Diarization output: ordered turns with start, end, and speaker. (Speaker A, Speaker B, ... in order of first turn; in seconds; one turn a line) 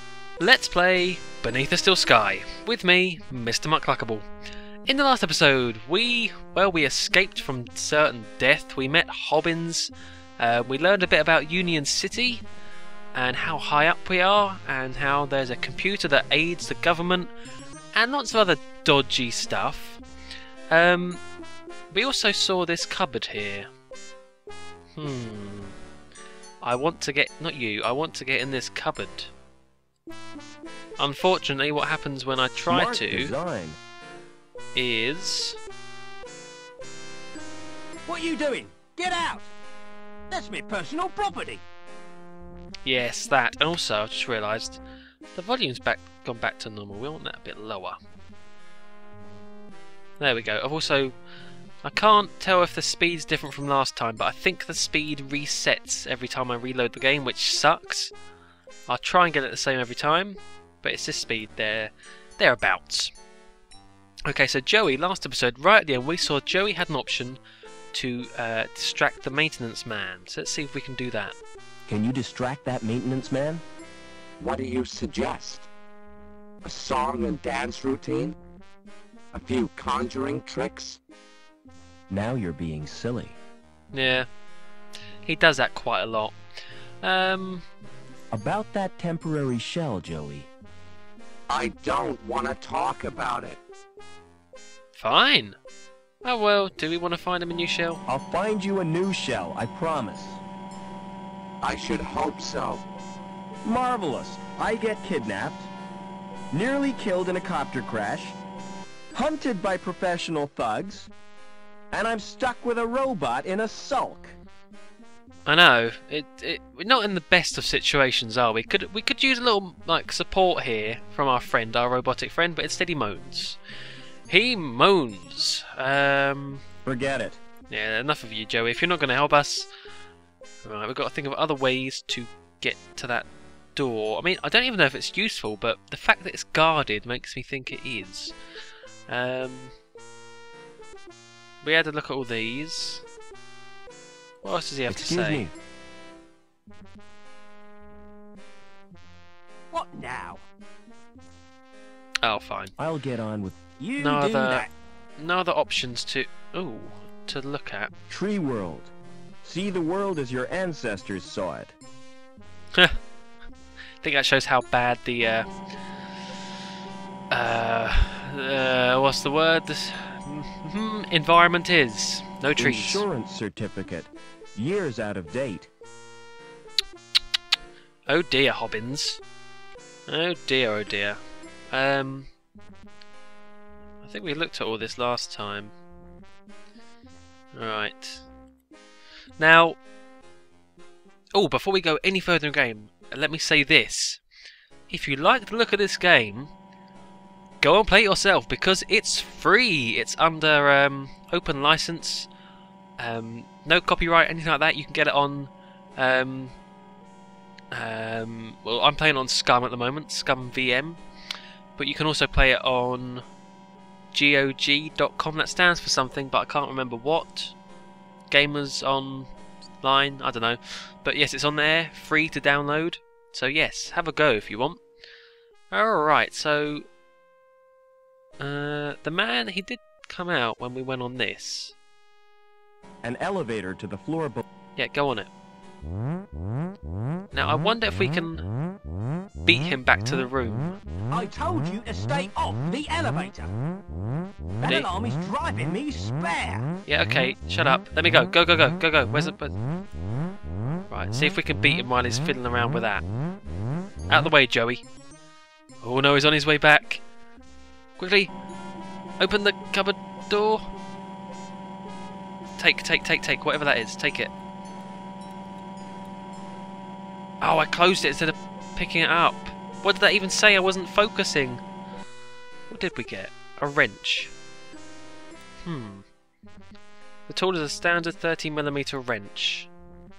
Speaker A: 0.4-4.2
Speaker A: 4.8-12.4
Speaker A: 13.1-17.3
Speaker A: 17.9-20.0
Speaker A: 20.7-21.2
Speaker A: 21.9-23.7
Speaker A: 24.9-25.8
Speaker A: 26.6-29.3
Speaker A: 31.0-33.3
Speaker B: 32.7-33.8
Speaker A: 34.7-35.6
Speaker C: 38.0-39.5
Speaker C: 40.3-41.6
Speaker A: 42.8-44.8
Speaker A: 45.3-48.0
Speaker A: 50.2-51.1
Speaker A: 51.8-58.1
Speaker A: 58.9-63.1
Speaker A: 64.3-67.4
Speaker A: 67.9-71.4
Speaker B: 71.9-73.6
Speaker D: 74.4-75.7
Speaker D: 76.6-78.4
Speaker D: 79.3-81.0
Speaker B: 82.1-83.4
Speaker A: 83.9-84.3
Speaker A: 85.2-86.4
Speaker A: 87.0-87.7
Speaker B: 88.3-90.5
Speaker D: 91.5-93.6
Speaker A: 94.9-95.6
Speaker A: 96.2-98.0
Speaker B: 98.1-100.4
Speaker D: 101.6-102.8
Speaker B: 103.6-105.7
Speaker B: 106.5-108.4
Speaker B: 109.1-111.1
Speaker B: 111.9-114.3
Speaker A: 115.5-123.6
Speaker A: 124.3-126.6
Speaker B: 126.8-127.4
Speaker A: 127.7-129.7
Speaker A: 130.6-138.3
Speaker A: 139.1-139.7
Speaker A: 141.6-143.0
Speaker A: 144.4-145.4
Speaker B: 144.9-145.5
Speaker C: 149.7-150.4
Speaker A: 152.2-152.7
Speaker B: 152.8-153.6
Speaker C: 153.8-154.7
Speaker A: 154.0-157.9
Speaker B: 158.1-158.9
Speaker B: 159.4-161.7
Speaker A: 164.0-165.5
Speaker A: 167.3-173.0
Speaker B: 172.6-175.7
Speaker A: 178.1-179.2
Speaker A: 180.1-181.2
Speaker A: 181.7-182.3
Speaker A: 184.0-185.7
Speaker A: 187.5-188.2
Speaker A: 189.4-189.8
Speaker A: 191.3-194.2
Speaker A: 194.9-196.5
Speaker A: 197.6-202.3
Speaker A: 203.0-206.5
Speaker A: 207.7-211.0
Speaker A: 211.8-213.2
Speaker A: 214.1-217.5
Speaker A: 218.3-219.3
Speaker A: 219.8-224.8
Speaker A: 225.7-226.8
Speaker A: 228.4-231.8
Speaker B: 233.0-234.4
Speaker A: 234.8-235.3
Speaker A: 237.3-238.4
Speaker A: 239.4-240.8
Speaker C: 241.1-243.5
Speaker C: 244.6-246.7
Speaker A: 244.6-244.9
Speaker A: 246.8-249.6
Speaker A: 250.9-253.0
Speaker A: 254.1-254.8
Speaker A: 255.8-257.0
Speaker A: 258.0-258.3
Speaker A: 259.2-260.6
Speaker A: 262.6-264.3
Speaker A: 267.4-271.6
Speaker A: 272.7-274.3
Speaker A: 275.6-276.0
Speaker A: 277.3-279.7